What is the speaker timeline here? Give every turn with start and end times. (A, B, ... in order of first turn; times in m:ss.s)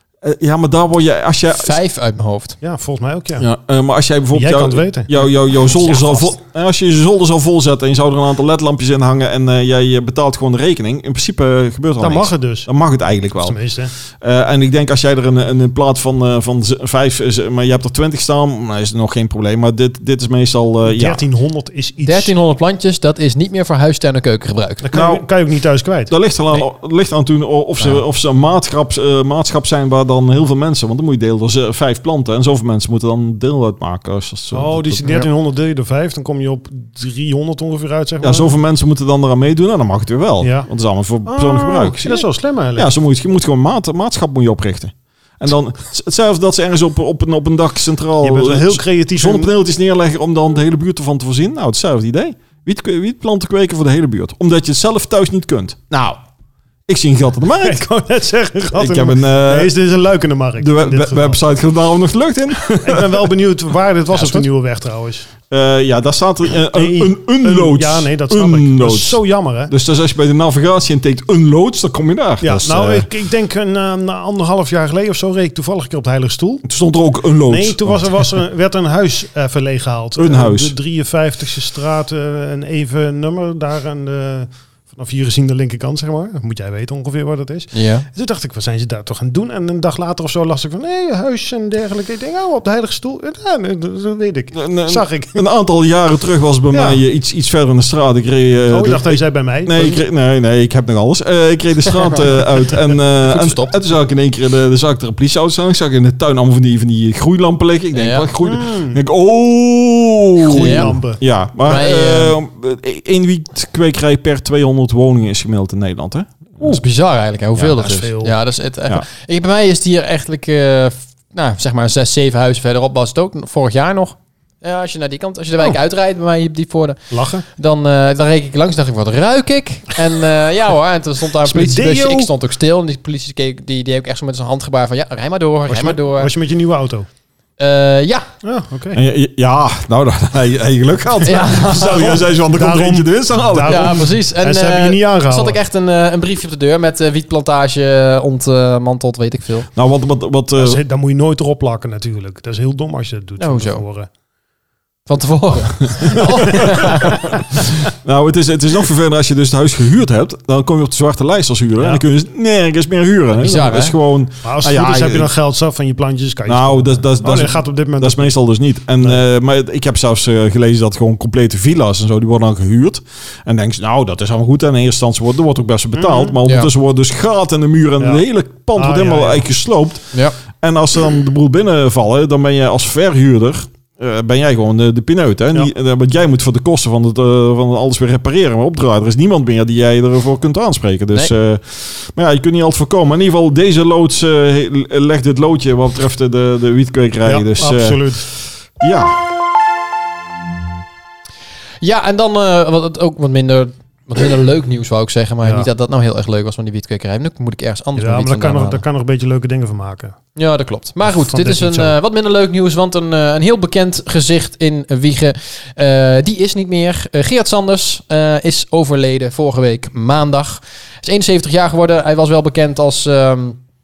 0:00.2-0:01.8 A
0:01.5-0:02.6 B
0:02.6-0:03.5 C
0:03.4-0:13.6 A
0:04.3-0:05.2 C
0:05.7-0:06.3 B
0:12.0-0:12.7 C
0:13.3-0:13.9 C
0:14.2-0:21.2 A
0:20.8-0:22.4 C
0:22.0-0:24.8 B
0:24.8-0:26.1 C
0:24.9-0:25.3 A
0:26.1-0:35.3 A
0:34.5-0:38.6 C
0:38.2-0:56.2 A
0:40.4-0:40.7 C
0:41.3-0:42.9 C
0:48.2-0:49.5 C
0:56.9-0:57.8 A
0:57.6-1:01.4 C
0:58.7-0:59.7 A
1:00.6-1:03.3 A
1:02.8-1:05.3 C
1:04.2-1:04.5 A
1:05.5-1:13.1 A
1:06.7-1:09.7 C
1:12.4-1:16.7 C
1:16.6-1:18.0 A
1:17.5-1:35.4 C
1:20.2-1:20.8 A
1:27.7-1:28.1 B
1:34.5-1:56.8 A
1:36.7-1:37.0 C
1:38.7-1:40.0 C
1:43.2-1:43.8 B
1:47.9-1:48.3 B
1:48.4-1:49.0 C
1:50.4-1:51.2 C
1:50.5-1:51.0 B
1:51.6-1:52.4 B
1:56.6-2:16.3 B
1:57.6-1:57.9 A
1:57.7-1:58.4 C
2:07.1-2:07.5 C
2:11.5-2:12.3 C
2:15.7-2:17.1 C
2:17.6-2:18.3 B
2:18.4-2:19.0 C
2:18.9-2:24.1 A
2:21.2-2:22.2 B
2:21.9-2:25.6 C
2:23.6-2:29.7 B
2:29.8-2:30.8 A
2:30.6-2:34.1 C
2:33.4-2:33.8 B
2:35.1-2:37.4 B
2:36.1-2:36.8 C
2:37.8-2:45.3 A
2:41.8-2:42.0 C
2:43.3-2:44.0 B
2:44.4-2:48.3 C
2:46.5-3:19.2 A
2:56.0-2:56.4 C
2:56.4-2:56.7 B
2:58.0-2:58.2 C
2:58.8-2:59.5 C
3:17.2-3:18.2 C
3:21.8-3:28.8 B
3:25.4-3:25.7 C
3:28.0-3:30.2 C
3:30.4-3:43.6 B
3:31.0-3:32.0 C